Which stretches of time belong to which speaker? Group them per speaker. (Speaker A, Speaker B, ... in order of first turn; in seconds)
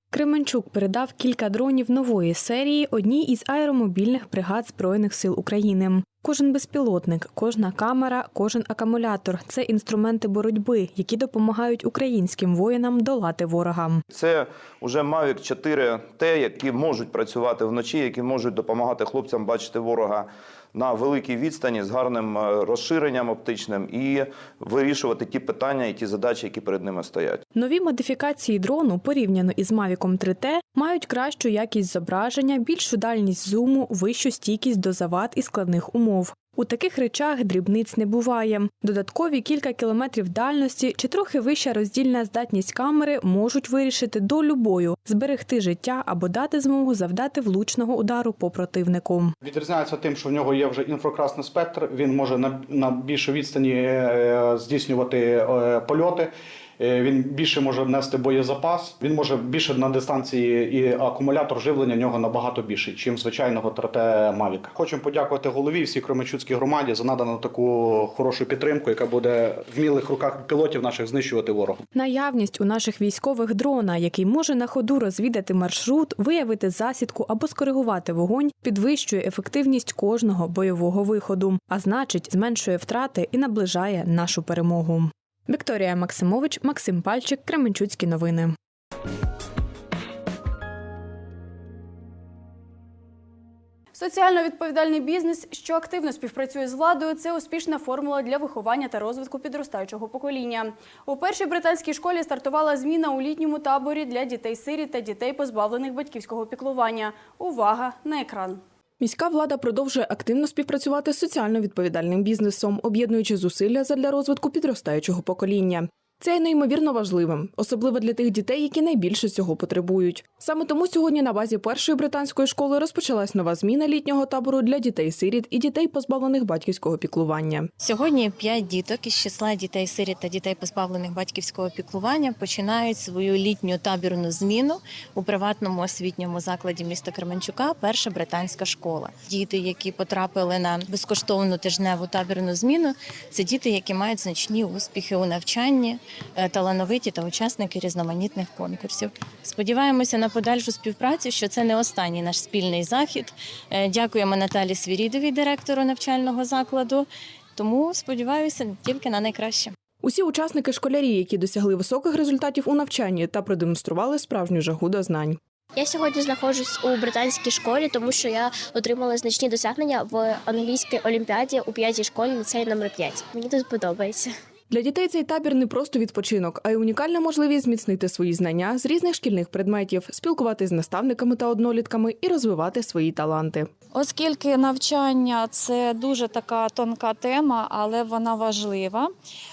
Speaker A: 0.1-14.0, 27.6-49.3, 71.9-88.5
Speaker B: 14.1-27.4
Speaker C: 49.4-71.8
Speaker D: 94.0-108.6
Speaker E: 109.0-127.7, 160.0-165.4, 174.7-183.7
Speaker F: 127.8-159.7
Speaker G: 165.8-174.3
Speaker H: 183.9-189.1